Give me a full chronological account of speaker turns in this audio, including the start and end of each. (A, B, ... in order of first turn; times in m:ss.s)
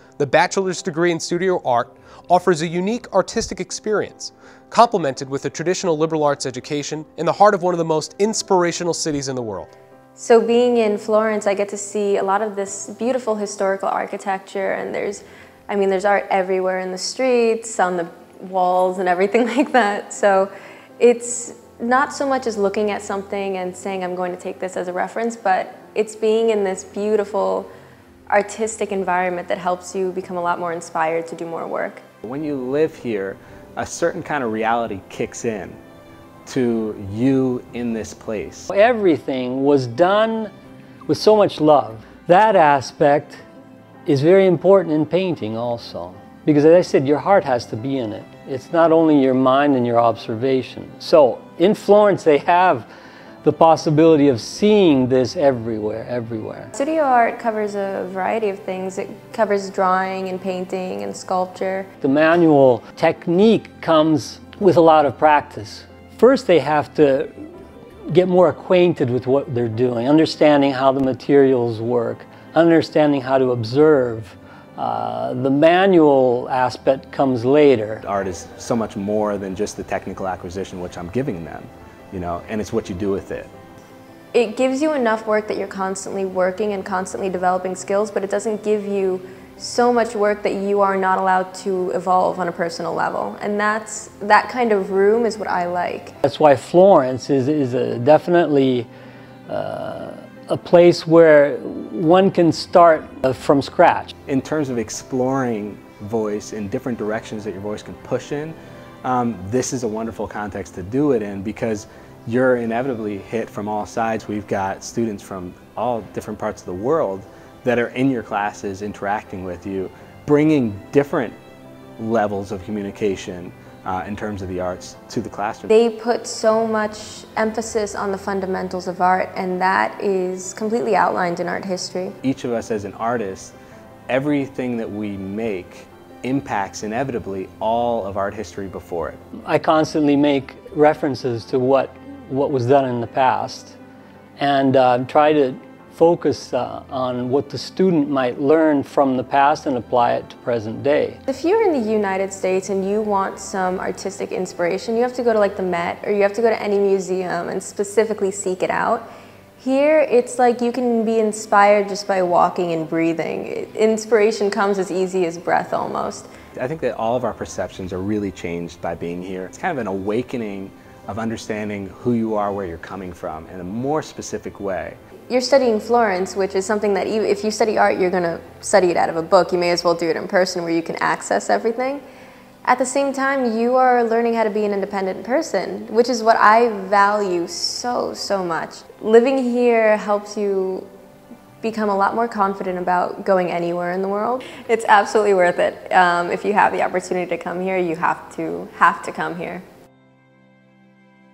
0:00.2-0:09.7 A
0:10.2-0:27.7 B
0:28.3-0:32.0 B
0:32.2-0:35.8 C
0:36.4-0:38.7 C
0:38.7-0:40.5 D
0:41.1-0:43.4 D
0:44.0-0:52.9 D
0:53.4-0:56.7 D
0:56.7-1:01.9 B
1:02.0-1:07.3 D
1:08.1-1:18.0 D
1:18.0-1:23.5 C
1:24.3-1:36.1 B
1:36.2-1:38.9 D
1:39.5-1:44.1 D
1:44.3-2:01.4 C
2:02.0-2:05.7 C
2:05.7-2:12.2 B
2:12.2-2:13.5 C
2:14.1-2:19.2 C
2:19.4-2:23.8 D
2:24.4-2:31.2 D
2:31.3-2:39.0 B
2:39.6-2:46.3 B
2:46.6-2:55.0 C
2:55.3-3:02.0 B
3:02.6-3:10.9 B
3:11.6-3:19.6 B